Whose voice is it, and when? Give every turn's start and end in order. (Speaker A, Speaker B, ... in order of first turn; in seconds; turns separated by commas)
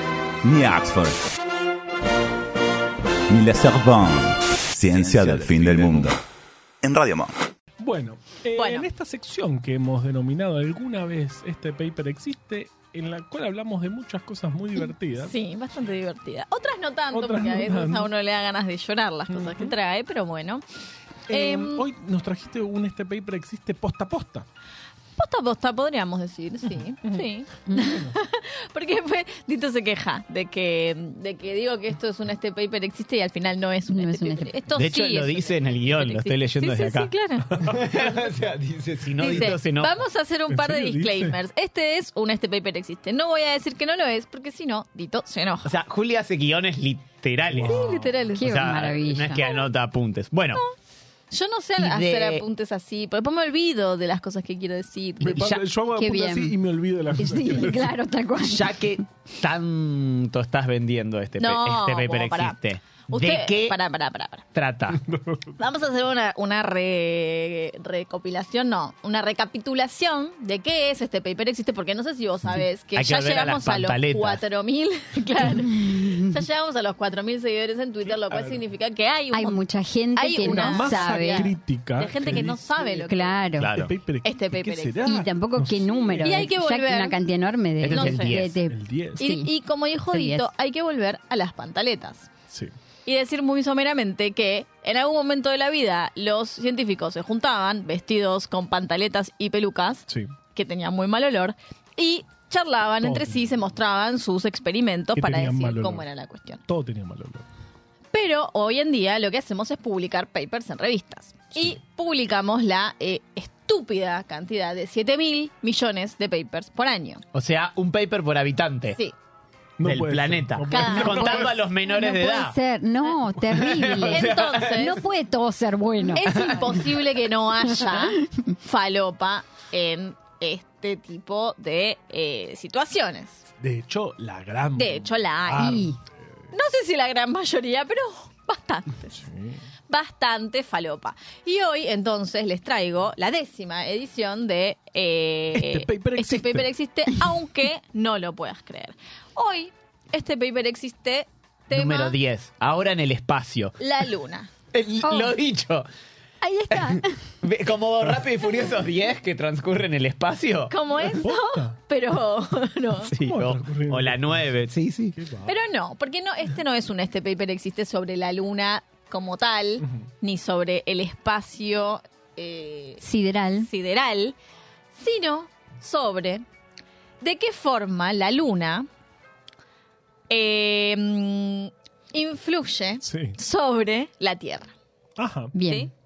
Speaker A: 0.4-1.2, Speaker A: 3.3-6.2, Speaker A: 6.8-7.3, Speaker B: 7.8-15.3, Speaker C: 8.6-8.9, Speaker C: 15.2-20.6, Speaker B: 17.1-18.1, Speaker B: 19.3-19.7, Speaker B: 21.3-24.5, Speaker C: 21.3-21.9, Speaker C: 25.2-37.7, Speaker D: 27.7-28.0, Speaker D: 33.9-34.5, Speaker E: 34.7-40.0, Speaker B: 37.5-38.0, Speaker C: 39.2-45.7, Speaker B: 40.5-41.4, Speaker E: 45.6-50.6, Speaker B: 47.5-48.3, Speaker C: 47.6-48.5, Speaker D: 48.4-49.4, Speaker C: 49.4-49.6, Speaker C: 51.3-55.5, Speaker E: 51.8-52.4, Speaker B: 55.2-57.9, Speaker D: 56.0-56.5, Speaker D: 57.2-59.0, Speaker E: 58.4-63.8, Speaker C: 61.4-62.6, Speaker C: 63.1-64.5, Speaker E: 64.5-65.0, Speaker B: 65.0-65.5, Speaker C: 65.6-79.6, Speaker E: 72.9-74.4, Speaker D: 75.8-76.2, Speaker B: 78.0-78.6, Speaker D: 79.3-81.5, Speaker C: 80.1-83.4, Speaker B: 80.4-82.6, Speaker D: 82.9-83.7, Speaker E: 83.6-83.9, Speaker B: 83.6-86.5, Speaker C: 84.2-85.0, Speaker D: 85.0-89.5, Speaker C: 86.2-87.2, Speaker E: 87.8-88.6, Speaker C: 87.9-88.3, Speaker B: 88.7-89.3, Speaker C: 89.2-92.3, Speaker D: 90.1-90.5, Speaker C: 93.0-106.6, Speaker B: 103.0-103.5, Speaker B: 105.2-106.1, Speaker B: 106.7-107.5, Speaker C: 108.1-117.2, Speaker E: 117.3-119.0, Speaker B: 119.8-121.6, Speaker E: 119.8-122.6, Speaker C: 120.7-121.3, Speaker D: 121.0-127.0, Speaker E: 123.4-124.8, Speaker C: 124.0-125.0, Speaker C: 126.1-133.5, Speaker D: 127.8-128.2, Speaker B: 133.6-136.0, Speaker C: 134.8-135.8, Speaker D: 135.6-135.9, Speaker C: 136.5-139.2, Speaker B: 139.1-139.6, Speaker C: 139.9-152.2, Speaker B: 145.5-146.7, Speaker E: 151.7-153.8, Speaker C: 153.8-154.5, Speaker E: 154.7-155.9, Speaker D: 155.0-155.3, Speaker D: 156.4-157.2, Speaker E: 156.7-160.7, Speaker C: 160.7-163.1, Speaker B: 161.1-161.8, Speaker E: 163.1-165.1, Speaker B: 163.2-165.6, Speaker C: 165.5-173.0, Speaker D: 173.0-173.7, Speaker C: 173.6-174.3, Speaker C: 174.9-176.4, Speaker C: 177.2-178.9, Speaker C: 180.3-184.7, Speaker B: 183.0-183.3, Speaker B: 185.2-185.5, Speaker D: 185.5-185.9, Speaker C: 185.7-185.9